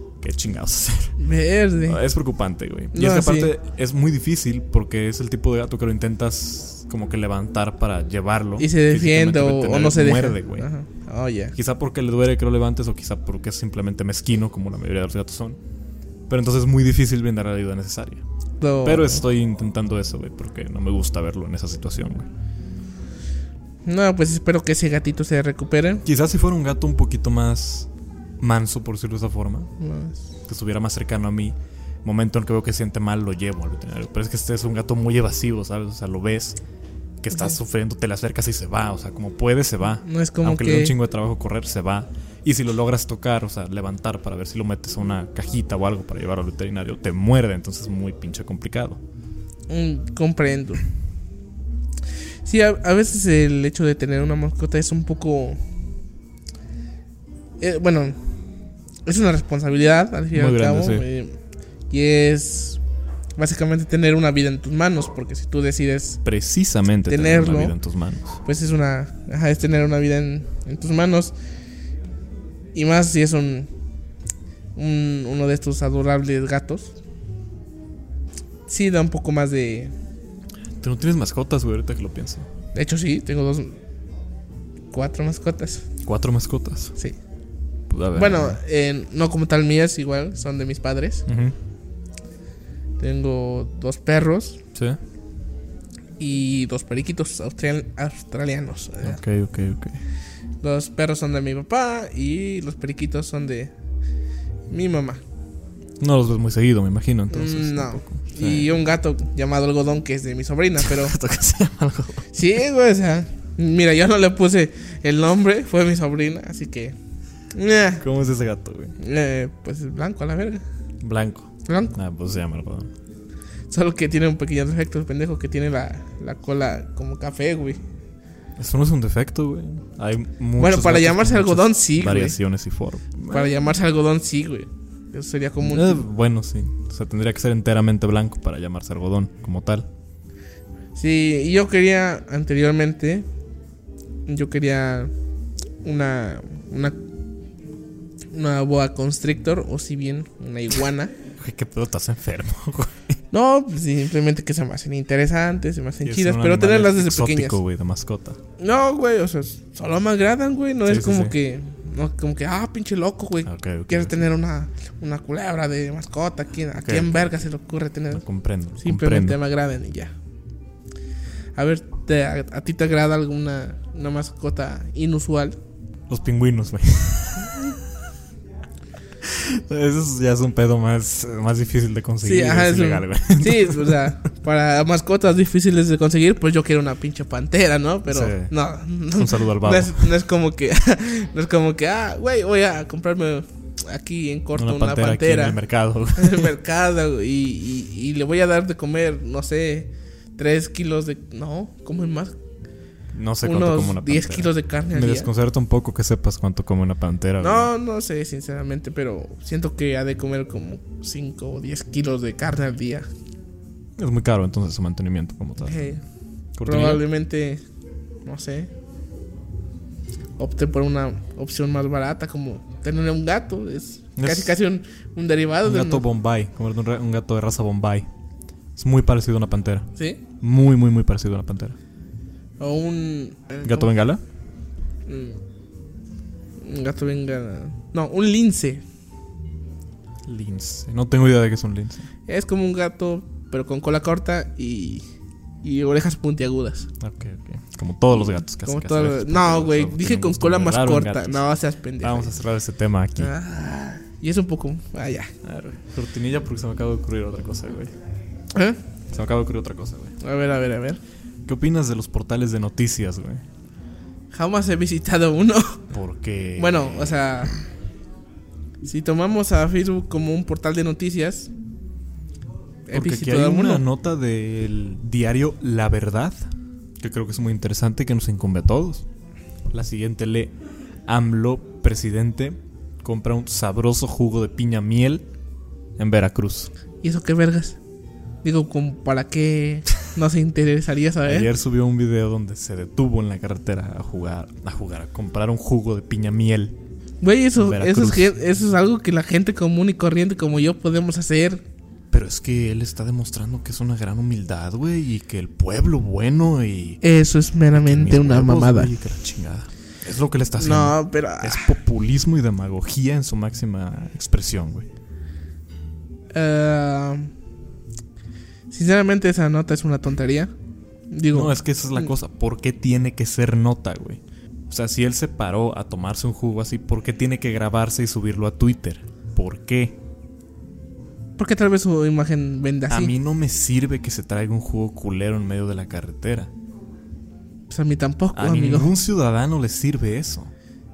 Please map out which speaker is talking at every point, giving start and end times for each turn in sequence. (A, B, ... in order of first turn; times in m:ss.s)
0:00.2-0:01.2 A
0:01.2-0:02.0 B
0:01.8-0:10.7 A
0:02.9-0:03.5 B
0:08.6-0:11.5 B
0:11.5-0:15.6 A
0:16.3-0:18.2 A
0:18.6-0:19.2 B
0:18.8-0:22.3 A
0:23.8-0:26.0 B
0:26.0-0:27.9 A
0:28.4-0:29.7 A
0:29.8-0:30.2 B
0:30.4-0:36.6 A
0:37.2-0:49.0 A
0:40.0-0:40.9 B
0:49.7-0:50.8 B
0:52.4-0:55.6 B
0:57.6-0:58.2 B
0:59.0-1:01.4 B
1:00.3-1:01.1 A
1:01.9-1:02.8 B
1:03.4-1:06.2 B
1:06.2-1:08.4 A
1:07.1-1:07.8 B
1:08.4-1:11.3 B
1:12.7-1:13.7 B
1:14.8-1:16.9 B
1:18.7-1:19.9 B
1:20.8-1:22.5 A
1:22.7-1:23.8 B
1:24.9-1:25.8 B
1:26.0-1:26.9 A
1:27.9-1:28.6 A
1:28.1-1:31.2 B
1:31.3-1:31.5 A
1:33.0-1:34.6 B
1:36.2-1:39.2 B
1:39.0-1:40.0 A
1:40.6-1:43.7 B
1:44.7-1:45.2 B
1:46.0-1:48.7 A
1:47.3-1:51.2 B
1:50.8-1:52.4 A
1:52.3-1:57.0 B
1:57.5-1:58.0 B
1:58.0-1:59.0 A
1:59.0-2:00.6 B
2:01.0-2:02.9 A
2:01.6-2:02.0 B
2:03.7-2:07.8 B
2:08.6-2:13.5 A
2:10.6-2:12.4 B
2:13.3-2:16.0 B
2:15.7-2:19.9 A
2:20.9-2:23.3 B
2:24.2-2:25.1 B
2:25.8-2:27.0 B
2:28.3-2:31.1 B
2:31.4-2:33.2 A
2:33.3-2:37.6 B
2:36.0-2:38.4 A
2:38.6-2:48.2 B
2:40.8-2:41.3 A
2:43.4-2:44.3 A
2:46.8-2:47.4 A
2:48.1-2:49.4 A
2:48.8-2:50.1 B
2:51.6-2:55.6 B
2:56.1-2:57.8 A
2:59.2-3:04.2 A
3:02.2-3:15.6 B
3:08.1-3:08.5 A
3:09.1-3:10.1 A
3:14.6-3:16.5 A
3:16.2-3:22.4 B
3:23.1-3:27.7 A
3:23.4-3:25.3 B
3:27.4-3:33.1 B
3:34.0-3:36.0 A
3:35.6-3:36.0 B
3:36.6-3:37.0 A
3:36.6-3:37.6 B
3:38.2-3:38.7 B
3:40.4-3:46.0 B
3:44.2-3:44.5 A
3:45.6-3:48.1 A
3:48.8-3:49.9 A
3:50.4-3:51.8 A
3:52.6-3:53.9 B
3:53.6-3:54.2 A
3:55.0-3:55.4 B
3:56.6-3:58.8 B
4:00.3-4:02.1 A
4:02.3-4:05.0 B
4:05.6-4:06.9 B
4:07.0-4:11.4 A
4:08.6-4:12.3 B
4:12.0-4:13.3 A
4:13.2-4:15.3 B
4:15.4-4:17.9 A
4:18.5-4:18.8 B
4:19.1-4:20.2 A
4:20.2-4:21.0 B
4:21.4-4:23.4 A
4:24.3-4:25.8 B
4:25.9-4:27.2 A
4:26.6-4:27.5 B
4:28.8-4:31.5 B
4:32.9-4:33.8 B
4:32.9-4:36.5 A
4:37.0-4:39.1 A
4:39.7-4:40.5 A
4:41.1-4:45.2 A
4:46.0-4:46.7 A
4:47.0-4:47.8 B
4:48.4-4:51.5 B
4:51.2-4:56.8 A
4:57.2-5:01.6 B
4:57.6-4:58.3 A
5:02.1-5:07.0 A
5:07.0-5:08.9 B
5:07.7-5:14.9 A
5:10.6-5:11.8 B
5:16.3-5:17.3 B
5:18.7-5:20.5 B
5:21.1-5:22.0 B
5:21.3-5:30.0 A
5:31.4-5:33.1 B
5:32.9-5:36.5 A
5:37.7-5:38.9 B
5:38.3-5:40.5 A